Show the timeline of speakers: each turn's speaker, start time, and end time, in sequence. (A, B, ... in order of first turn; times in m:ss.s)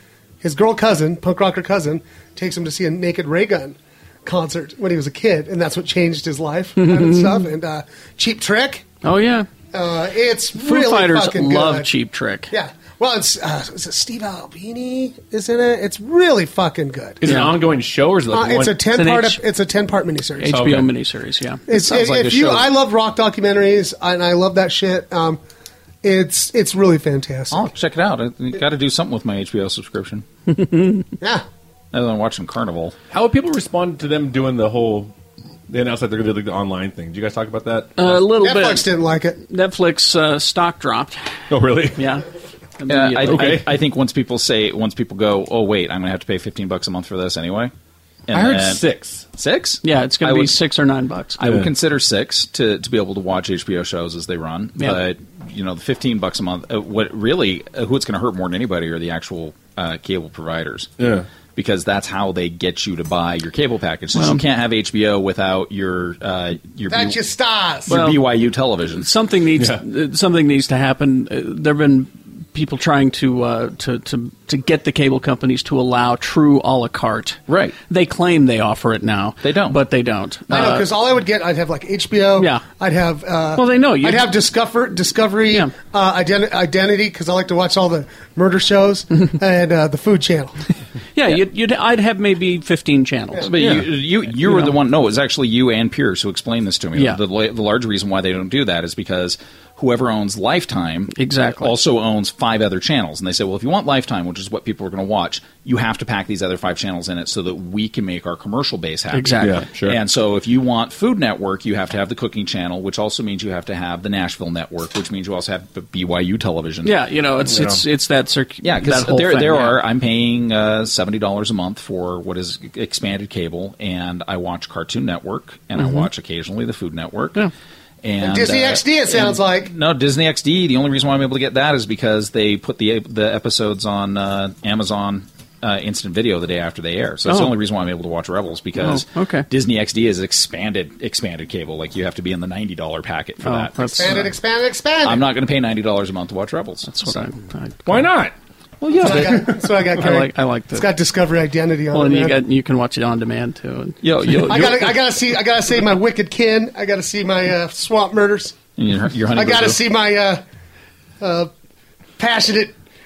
0:00.4-0:08.9 A
0:06.8-0:07.4 B
0:09.0-0:09.5 B
0:09.7-0:11.9 A
0:10.6-0:12.5 B
0:12.5-0:17.2 A
0:17.2-0:18.8 C
0:17.2-0:17.6 B
0:18.3-0:20.7 A
0:19.0-0:19.4 B
0:20.4-0:21.6 B
0:20.5-0:20.9 C
0:21.7-0:25.4 A
0:21.7-0:22.7 D
0:26.0-0:27.7 A
0:27.5-0:30.2 D
0:30.5-0:31.1 B
0:31.9-0:33.0 D
0:33.1-0:35.1 C
0:35.7-0:38.2 C
0:38.0-0:38.9 B
0:38.4-0:39.4 A
0:39.4-0:41.2 B
0:41.5-0:42.0 C
0:42.0-0:42.3 B
0:42.8-0:43.6 B
0:42.9-0:47.7 D
0:43.3-0:43.7 C
0:48.3-0:50.6 D
0:48.3-0:49.3 C
0:49.8-0:51.4 B
0:51.4-1:00.9 D
0:51.4-0:51.7 C
1:01.0-1:01.3 C
1:01.6-1:07.2 D
1:04.1-1:04.4 B
1:06.9-1:08.0 A
1:07.9-1:09.1 D
1:07.9-1:08.2 B
1:09.0-1:20.9 B
1:09.6-1:09.8 C
1:17.5-1:17.8 D
1:19.4-1:19.8 D
1:20.5-1:30.6 A
1:22.4-1:22.6 B
1:23.6-1:24.3 B
1:31.2-1:34.7 B
1:33.4-1:57.0 D
1:37.0-1:37.2 B
1:41.1-1:41.8 B
1:49.1-1:49.7 B
1:49.4-1:50.0 C
1:56.8-1:59.8 B
1:57.5-1:57.8 C
1:58.6-2:07.4 D
2:05.8-2:06.1 B
2:08.0-2:24.2 D
2:08.2-2:09.7 A
2:17.3-2:17.5 B
2:18.8-2:19.5 B
2:23.4-2:24.3 B
2:24.0-2:25.3 A
2:25.0-2:27.0 D
2:26.9-2:28.1 B
2:27.9-2:28.4 C
2:29.0-2:29.6 C
2:29.0-2:32.4 A
2:30.0-2:30.9 B
2:31.9-2:34.6 B
2:34.0-2:35.0 D
2:34.5-2:38.6 A
2:38.8-2:39.8 D
2:39.3-2:40.4 A
2:41.2-2:41.5 A
2:42.2-2:42.8 A